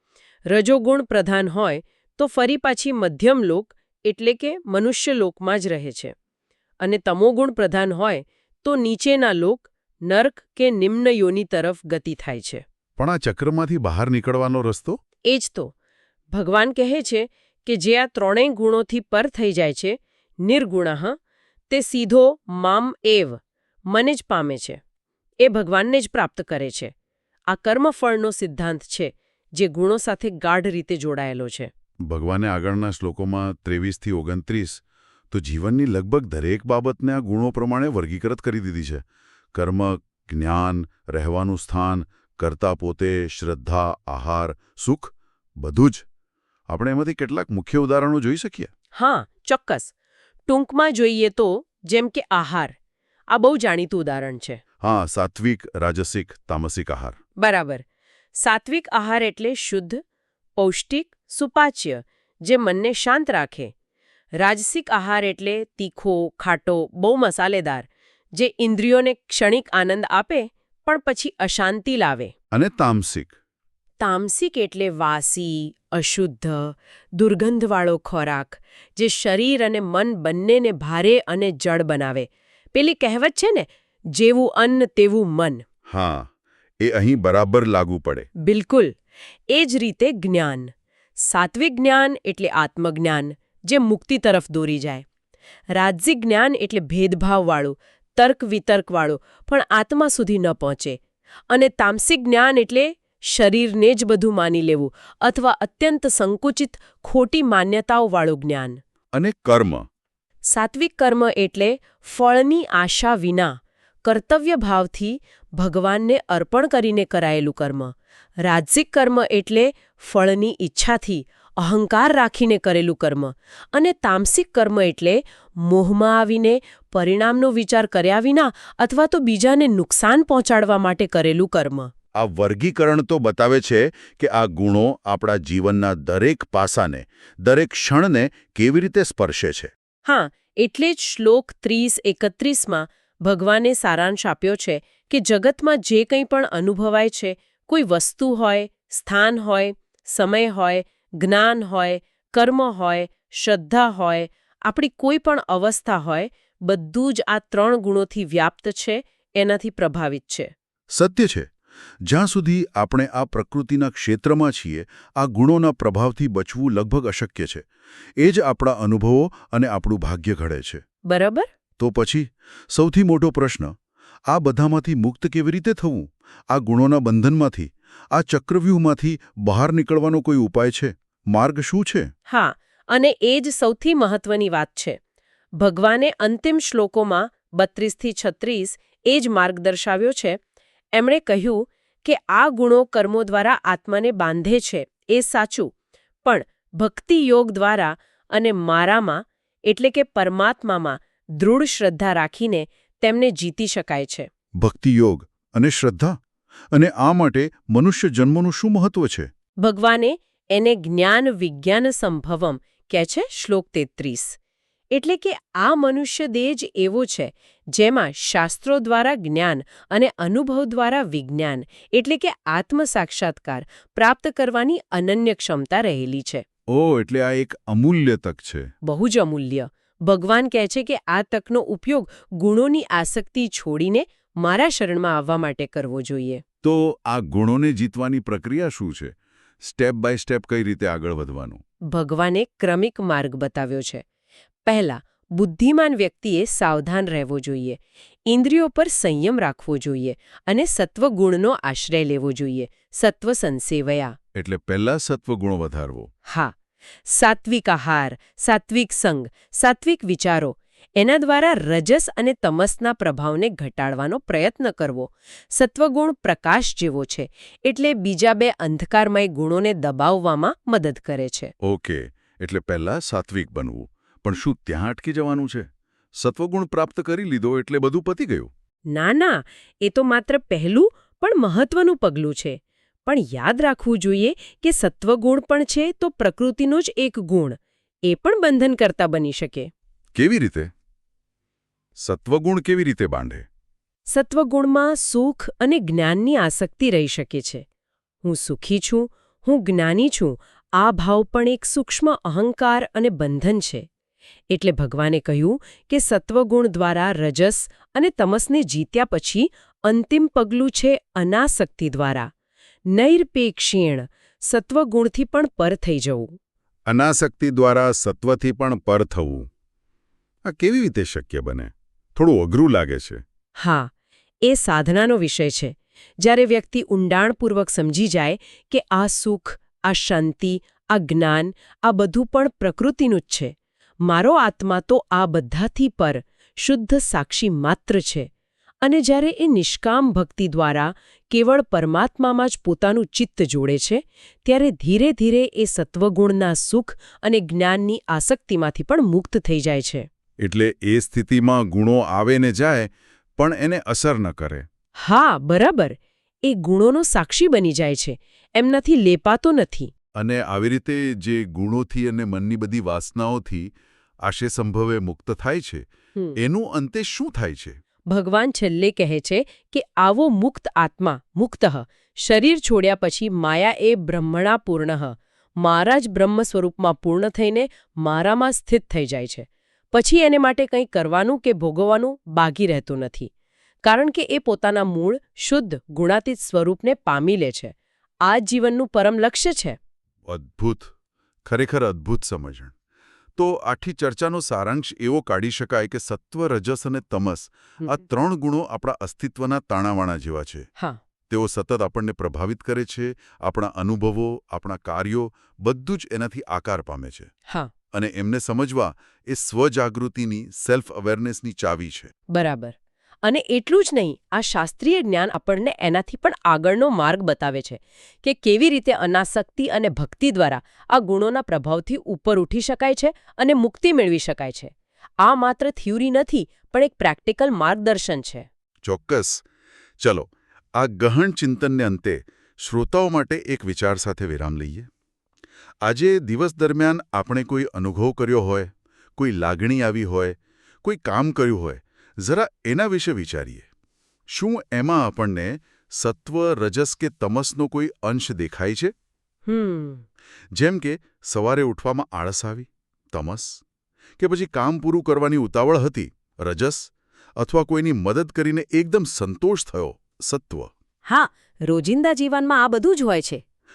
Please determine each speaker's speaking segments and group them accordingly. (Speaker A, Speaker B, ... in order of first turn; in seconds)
Speaker A: 0.5-6.1, 6.8-12.6, 15.2-15.7, 16.3-21.2, 21.7-24.8, 25.4-26.9, 27.5-31.7, 48.9-49.9, 50.5-52.8, 53.3-54.6, 57.4-60.0, 60.6-63.7, 64.4-72.3, 74.0-85.6, 88.5-89.0, 89.5-95.0, 95.7-101.0, 101.5-108.8, 110.5-117.9, 118.4-131.9, 140.1-160.5, 171.1-171.5, 182.3-185.0, 185.6-190.4, 190.9-195.7, 196.2-204.3, 209.6-214.4, 214.9-226.4, 228.8-236.4, 241.9-244.0, 244.6-254.2, 256.3-271.5, 278.9-289.7, 294.1-297.6, 298.2-303.9, 304.5-312.3, 312.9-316.4, 323.6-323.9, 324.4-338.3, 338.8-350.1, 355.0-359.9, 368.1-383.3, 383.8-387.7, 388.2-389.8, 412.3-428.5, 449.4-450.1, 461.1-463.4
Speaker B: 13.0-15.0, 32.0-39.0, 39.5-46.0, 46.7-48.7, 54.8-57.2, 72.5-73.3, 85.9-86.3, 86.8-88.3, 109.1-109.9, 132.1-139.7, 160.9-161.5, 162.0-167.7, 168.2-170.8, 171.8-173.7, 174.3-182.1, 204.6-206.2, 206.7-209.3, 226.7-228.7, 236.6-241.6, 254.3-256.1, 271.6-278.5, 290.1-290.7, 292.0-293.4, 316.9-319.5, 320.4-323.2, 350.4-354.6, 360.1-363.7, 364.2-365.8, 366.4-367.8, 390.2-390.9, 391.4-392.7, 393.4-400.7, 401.3-407.3, 407.9-412.1, 428.8-429.4, 430.0-434.9, 435.8-443.6, 444.3-448.9, 450.5-453.6, 454.2-460.7